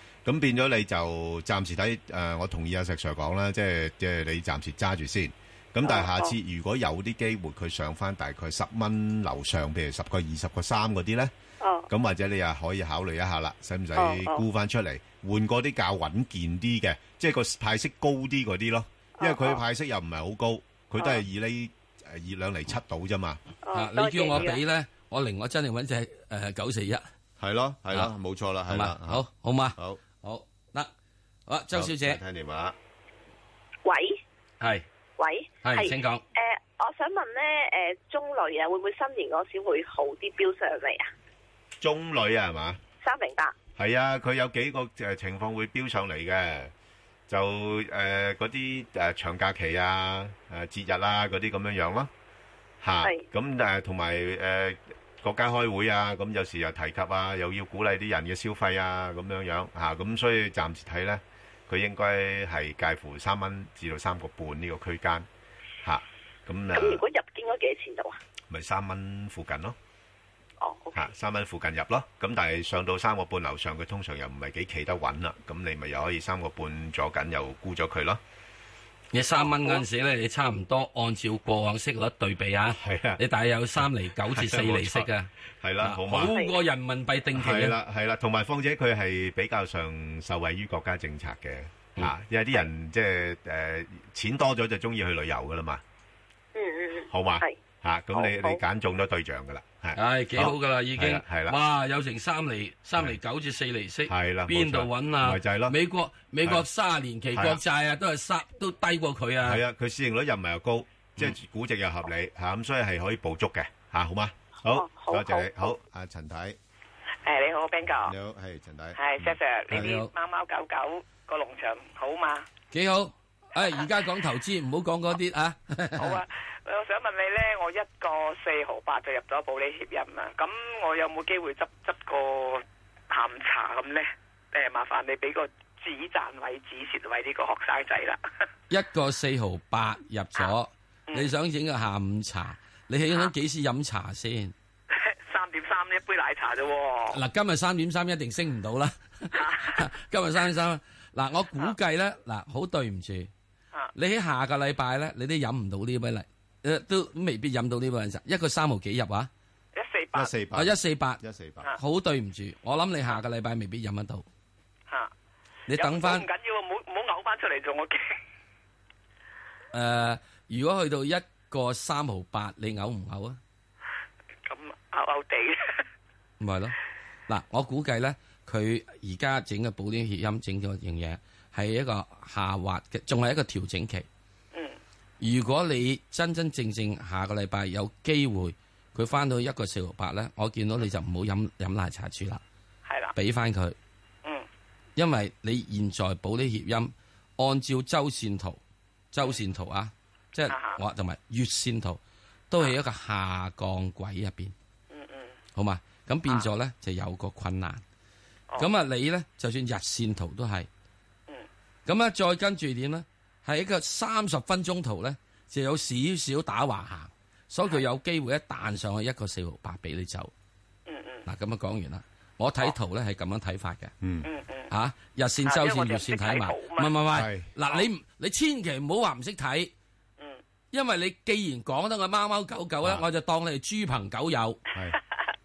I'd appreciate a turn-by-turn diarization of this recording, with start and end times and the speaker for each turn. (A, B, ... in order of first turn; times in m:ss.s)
0:00.2-0:11.3 A
0:05.8-0:06.3 B
0:11.6-0:11.9 B
0:11.9-0:23.4 A
0:14.0-0:14.4 B
0:19.2-0:19.6 B
0:23.6-0:24.6 B
0:23.7-0:27.0 C
0:27.4-0:29.2 A
0:28.7-0:30.9 C
0:29.8-0:30.0 A
0:31.5-0:32.2 C
0:31.7-0:32.8 A
0:33.8-0:34.2 D
0:35.2-0:41.1 D
0:35.6-0:36.2 C
0:41.8-0:42.8 A
0:43.0-0:43.5 D
0:43.8-0:46.7 A
0:47.3-0:52.1 A
0:52.8-1:05.3 A
1:05.8-1:07.0 A
1:06.7-1:08.2 D
1:08.5-1:09.8 A
1:10.6-1:11.0 D
1:10.9-1:18.2 A
1:19.1-1:25.3 C
1:22.8-1:23.2 A
1:24.3-1:25.1 A
1:25.6-1:26.4 A
1:25.8-1:27.8 C
1:27.3-1:35.8 A
1:36.5-1:37.6 D
1:37.1-1:41.6 A
1:38.1-1:38.6 D
1:40.0-1:49.6 C
1:44.1-1:45.8 A
1:47.3-1:47.6 A
1:49.4-1:56.6 A
1:54.6-1:55.7 D
1:57.2-1:58.1 E
1:58.0-1:59.8 A
1:59.0-2:02.4 E
1:59.7-2:00.1 C
2:02.7-2:06.2 C
2:06.0-2:18.2 E
2:18.7-2:24.5 C
2:24.9-2:27.2 E
2:27.1-2:33.3 C
2:29.3-2:29.8 E
2:33.9-2:39.3 C
2:39.7-2:40.3 E
2:40.1-2:41.7 A
2:40.5-2:41.2 C
2:41.8-2:44.2 C
2:45.7-2:46.2 C
2:45.7-2:48.0 E
2:49.7-2:53.4 C
2:54.5-2:55.6 E
2:56.4-2:56.7 C
2:57.3-3:04.0 C
3:05.2-3:12.4 C
3:12.8-3:13.1 E
3:13.2-3:13.7 C
3:15.0-3:18.6 C
3:19.1-3:22.0 C
3:20.5-3:20.8 E
3:22.5-3:24.5 C
3:24.9-3:25.3 E
3:25.5-3:27.8 C
3:28.6-3:30.7 C
3:31.8-3:40.3 C
3:40.9-3:41.2 E
3:41.2-3:43.9 C
3:44.0-3:44.3 A
3:44.2-3:44.7 E
3:44.7-3:49.7 C
3:45.4-3:47.0 E
3:47.1-3:47.5 A
3:50.7-3:54.6 C